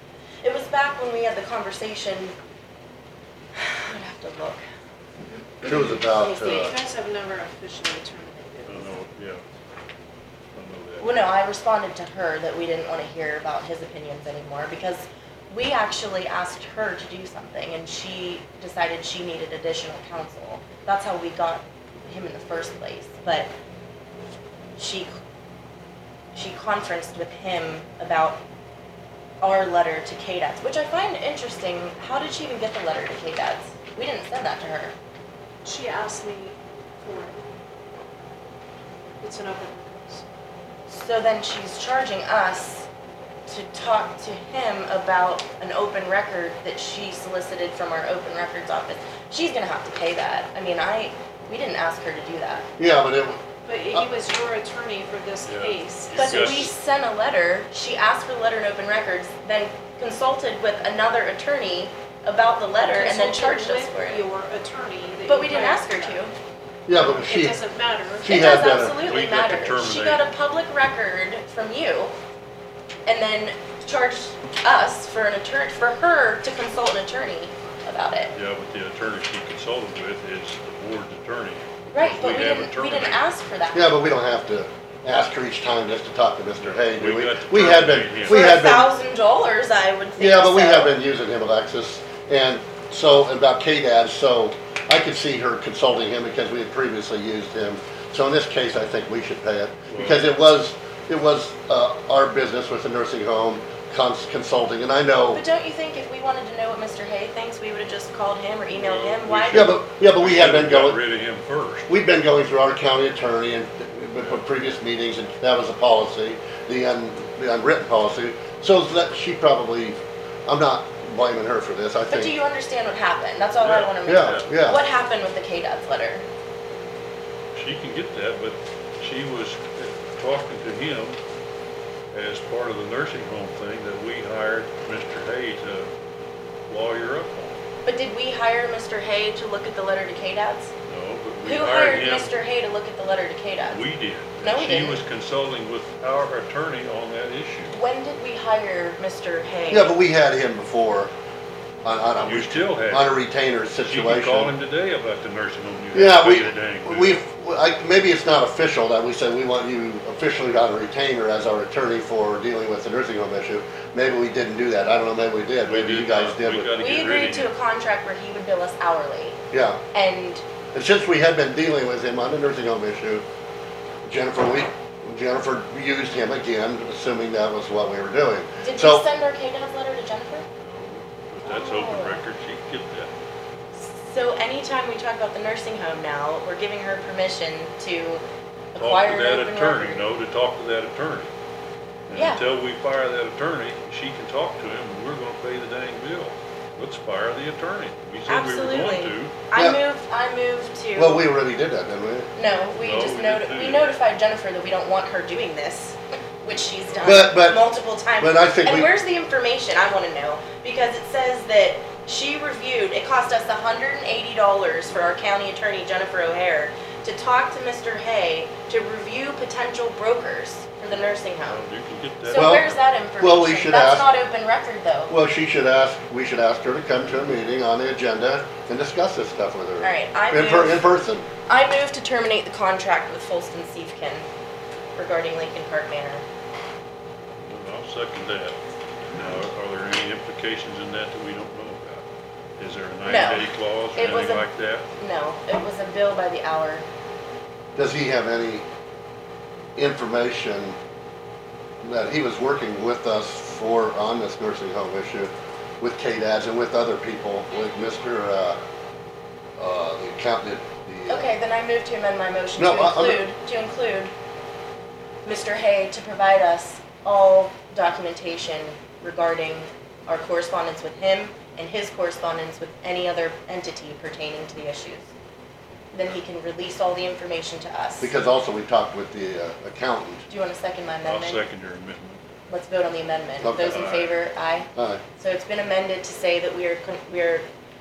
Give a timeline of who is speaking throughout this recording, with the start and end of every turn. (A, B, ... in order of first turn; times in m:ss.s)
0:00.4-0:02.4 A
0:03.6-0:04.6 A
0:05.6-0:06.8 B
0:05.7-0:09.0 C
0:08.7-0:09.4 D
0:10.5-0:11.2 D
0:11.0-0:23.5 A
0:24.8-0:25.1 A
0:26.3-0:28.4 A
0:29.4-0:35.0 A
0:35.6-0:37.4 C
0:39.2-0:40.2 C
0:40.9-0:42.9 A
0:43.5-0:52.7 A
0:52.8-0:54.1 B
0:53.6-0:56.7 C
0:55.4-0:56.7 D
0:56.2-1:04.2 A
1:02.8-1:06.2 C
1:05.3-1:06.3 A
1:06.9-1:07.6 B
1:07.0-1:07.3 D
1:07.2-1:08.8 C
1:08.2-1:09.0 B
1:08.2-1:12.1 A
1:09.0-1:10.3 D
1:13.1-1:18.3 A
1:18.3-1:23.2 D
1:21.9-1:23.9 A
1:23.7-1:28.9 B
1:26.6-1:28.4 D
1:28.3-1:31.0 A
1:30.2-1:45.4 B
1:39.9-1:40.2 D
1:45.3-1:49.8 A
1:48.7-1:51.9 D
1:49.5-1:51.0 B
1:51.9-2:02.4 B
2:02.1-2:06.3 A
2:03.6-2:04.5 D
2:04.1-2:04.8 B
2:07.6-2:11.2 D
2:12.1-2:15.9 D
2:16.7-2:17.6 D
2:17.8-2:20.7 A
2:20.9-2:22.3 D
2:21.4-2:23.9 A
2:23.7-2:27.8 D
2:24.4-2:25.0 A
2:27.7-2:30.0 A
2:29.7-2:31.1 B
2:31.8-2:34.5 B
2:32.2-2:33.2 D
2:33.8-2:37.2 D
2:35.9-2:46.7 B
2:45.7-2:47.5 D
2:46.8-2:49.4 A
2:49.5-2:49.8 B
2:49.9-2:50.4 A
2:50.7-2:53.2 B
2:54.1-2:59.1 B
2:58.6-3:00.4 A
3:00.6-3:03.1 D
3:01.4-3:02.2 A
3:03.7-3:10.0 A
3:08.8-3:11.3 D
3:12.1-3:19.3 D
3:12.1-3:12.4 A
3:18.3-3:21.2 A
3:19.5-3:19.8 B
3:21.0-3:22.3 B
3:22.4-3:41.6 A
3:22.7-3:24.0 D
3:27.0-3:27.7 B
3:28.2-3:28.9 B
3:41.0-3:42.8 D
3:42.2-3:45.1 A
3:42.3-3:44.1 B
3:45.1-3:51.3 B
3:49.8-3:50.9 A
3:51.5-3:54.3 A
3:55.0-3:56.2 A
3:57.4-3:58.6 D
3:59.1-4:02.1 D
4:02.6-4:04.9 D
4:03.1-4:06.8 A
4:07.8-4:08.6 B
4:09.8-4:10.8 B
4:11.8-4:18.6 B
4:19.6-4:21.3 B
4:21.1-4:24.1 A
4:22.6-4:23.2 B
4:25.2-4:35.1 A
4:35.9-4:38.1 A
4:38.0-4:40.2 B
4:40.3-4:41.4 A
4:41.0-4:42.2 D
4:42.5-4:47.5 A
4:43.4-4:43.9 B
4:43.7-4:44.1 D
4:44.8-4:45.0 B